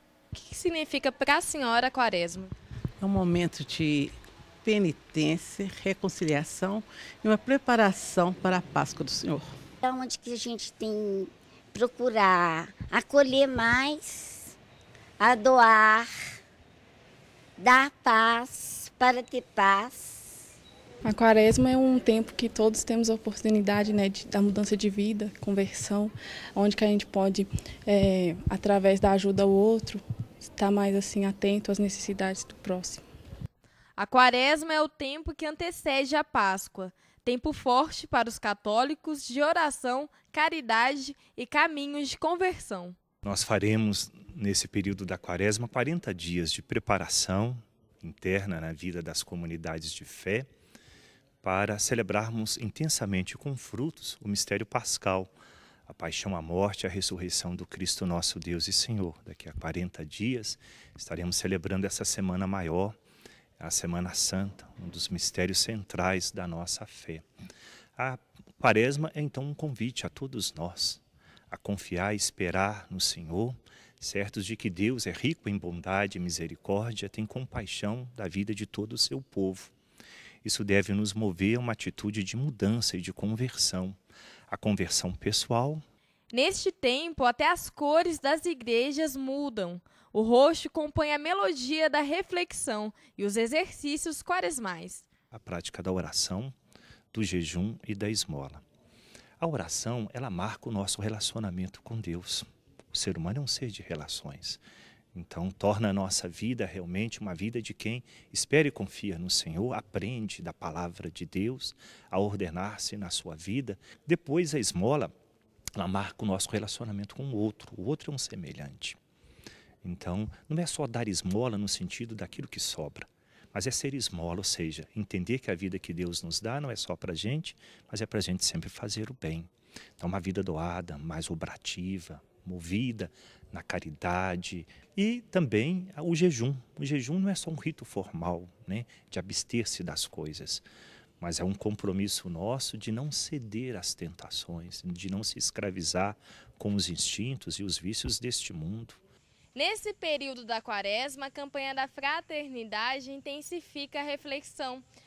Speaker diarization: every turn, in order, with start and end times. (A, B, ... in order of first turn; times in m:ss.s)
0:00.3-0:02.5 A
0:03.0-0:04.1 B
0:04.6-0:09.5 B
0:09.8-0:14.6 C
0:15.2-0:16.1 C
0:17.6-0:20.2 C
0:21.0-0:33.0 D
0:34.0-0:43.0 A
0:43.2-0:50.5 E
0:51.4-0:55.3 E
0:55.9-1:03.0 E
1:03.6-1:07.3 E
1:08.0-1:19.7 E
1:20.4-1:24.0 E
1:24.5-1:25.8 E
1:26.3-1:35.0 A
1:35.3-1:36.6 E
1:37.1-1:38.6 E
1:39.4-1:44.6 E
1:45.1-1:55.1 E
1:55.8-1:59.0 E
1:59.8-2:20.6 E
2:21.2-2:29.0 E
2:29.6-2:34.9 A